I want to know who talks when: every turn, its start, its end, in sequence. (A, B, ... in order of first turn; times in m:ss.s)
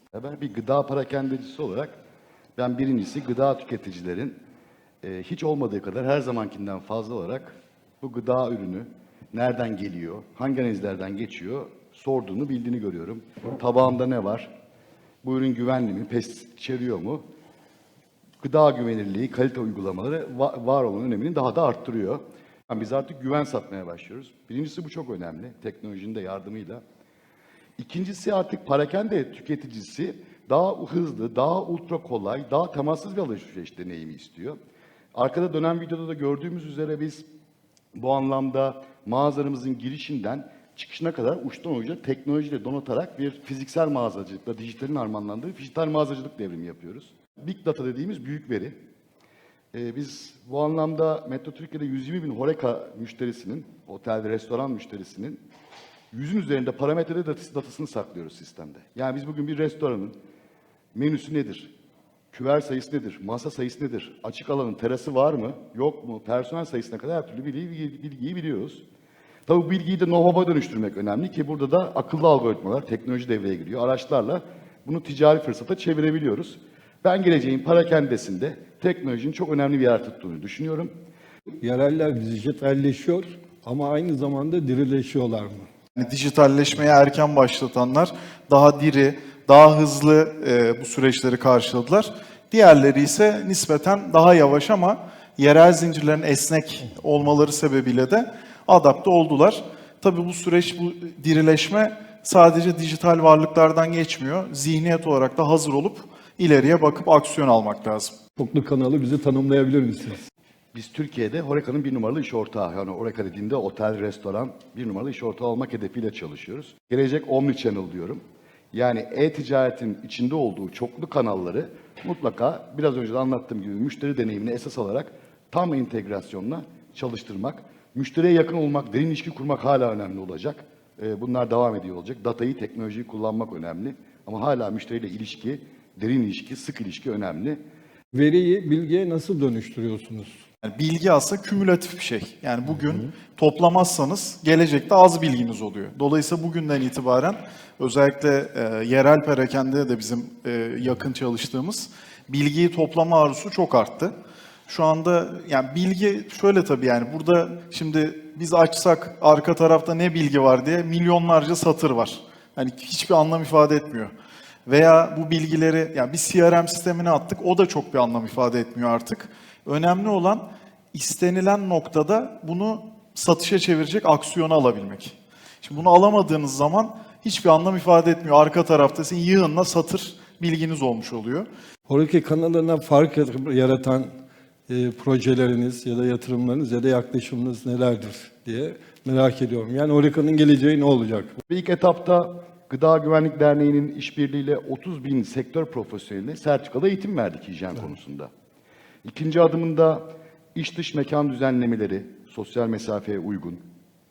0:00.1-0:01.9 A
0:02.6-0:04.4 A
0:05.0-0:14.5 A
0:15.2-0:17.2 A
0:18.4-0:26.8 A
0:27.8-0:34.6 A
0:35.1-0:37.3 A
0:38.0-0:48.8 A
0:49.7-0:55.4 A
0:56.1-1:00.2 A
1:00.9-1:01.7 A
1:02.3-1:08.8 A
1:09.4-1:20.9 A
1:21.6-1:25.7 B
1:26.0-1:48.1 C
1:48.4-1:50.2 B
1:50.7-2:17.6 A
2:18.1-2:20.3 B
2:20.6-2:34.1 C
2:34.7-2:44.1 C
2:44.7-3:01.5 C
3:01.9-3:04.1 B
3:04.7-3:11.4 B
3:11.5-3:18.3 A
3:19.0-3:23.6 A